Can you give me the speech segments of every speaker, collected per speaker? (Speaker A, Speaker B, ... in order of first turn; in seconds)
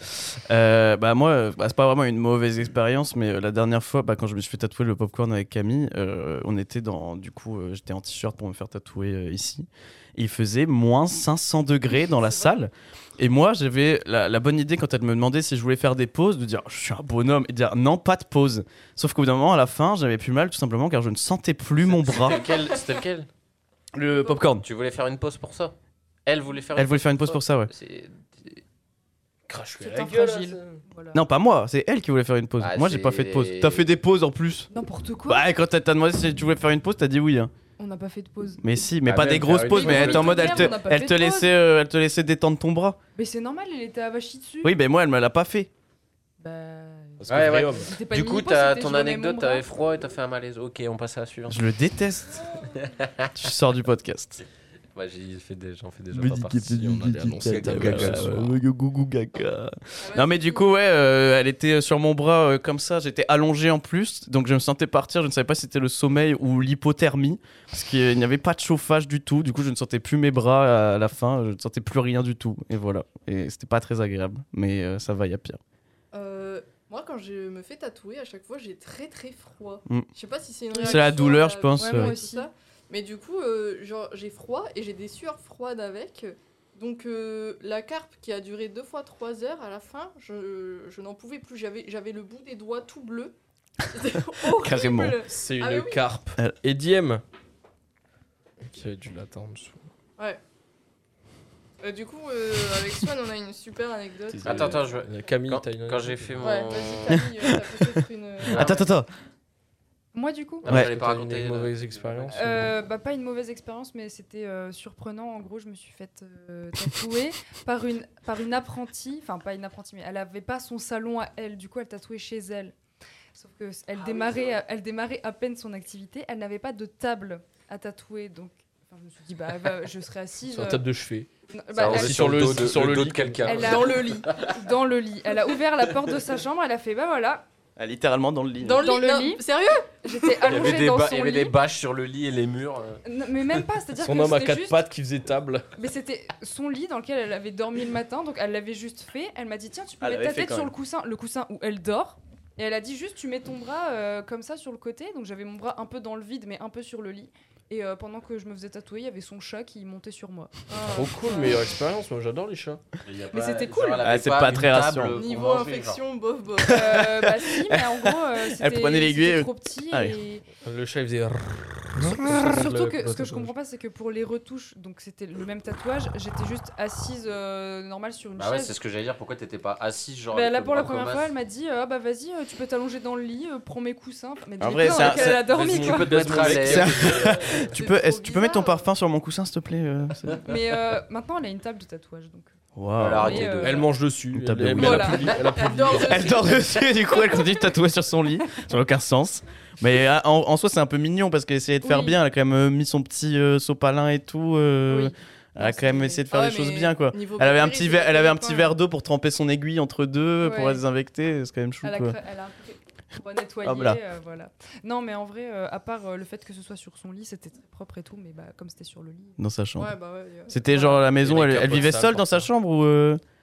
Speaker A: 0.5-22.4, 23.9-24.6, 26.8-27.7, 31.1-34.7, 35.3-37.5, 38.6-43.0, 44.6-45.7, 51.5-52.5, 53.4-54.4, 56.1-75.6, 80.8-82.1, 94.6-95.2, 107.1-108.0, 108.5-109.1, 137.8-138.8, 150.0-150.7, 164.0-165.2, 166.7-170.1, 172.0-172.4, 184.6-185.4, 186.6-190.4, 192.7-193.6, 194.3-195.3, 196.1-212.2, 213.6-214.0, 219.4-219.9, 220.5-223.2
Speaker B: 21.8-23.3, 24.6-25.7, 26.3-28.6, 32.6-33.9, 39.0-40.8, 47.3-51.6, 52.6-53.3, 55.0-56.7, 57.5-58.4, 104.4-107.2, 108.5-108.9, 110.6-112.7, 124.2-124.5, 131.7-134.6, 140.4-143.0, 163.0-166.0, 178.4-181.3, 185.5-187.4, 193.0-193.9, 221.4-221.9
Speaker C: 29.5-30.8, 47.2-47.9, 56.6-58.5, 95.3-97.2, 98.6-99.9, 104.3-106.7, 110.7-112.7, 130.5-133.8, 144.0-145.7, 160.8-162.8, 170.6-173.5, 185.4-187.7, 193.6-196.3, 221.1-222.5
Speaker D: 29.8-31.2, 34.7-35.5, 37.8-38.8, 39.6-41.5, 43.2-44.7, 46.4-49.6, 80.7-81.1, 81.8-82.5, 110.1-110.8, 112.3-122.8, 123.3-130.9, 131.5-132.5, 133.4-137.4, 138.8-139.4, 140.0-141.6, 143.0-144.9, 145.8-160.7, 163.3-164.1, 166.7-170.4, 172.4-178.8, 180.3-186.5, 190.4-192.5, 193.2-193.9, 194.8-195.6, 201.8-202.2, 204.9-206.2, 210.4-210.8, 211.8-219.4, 220.6-221.1
Speaker E: 60.0-60.7, 76.1-93.3, 93.9-96.1, 101.8-104.8, 106.4-108.8, 133.6-134.4, 138.6-140.5, 160.7-161.7, 165.1-167.0, 187.6-188.9, 195.3-197.5, 206.3-208.8, 219.8-220.6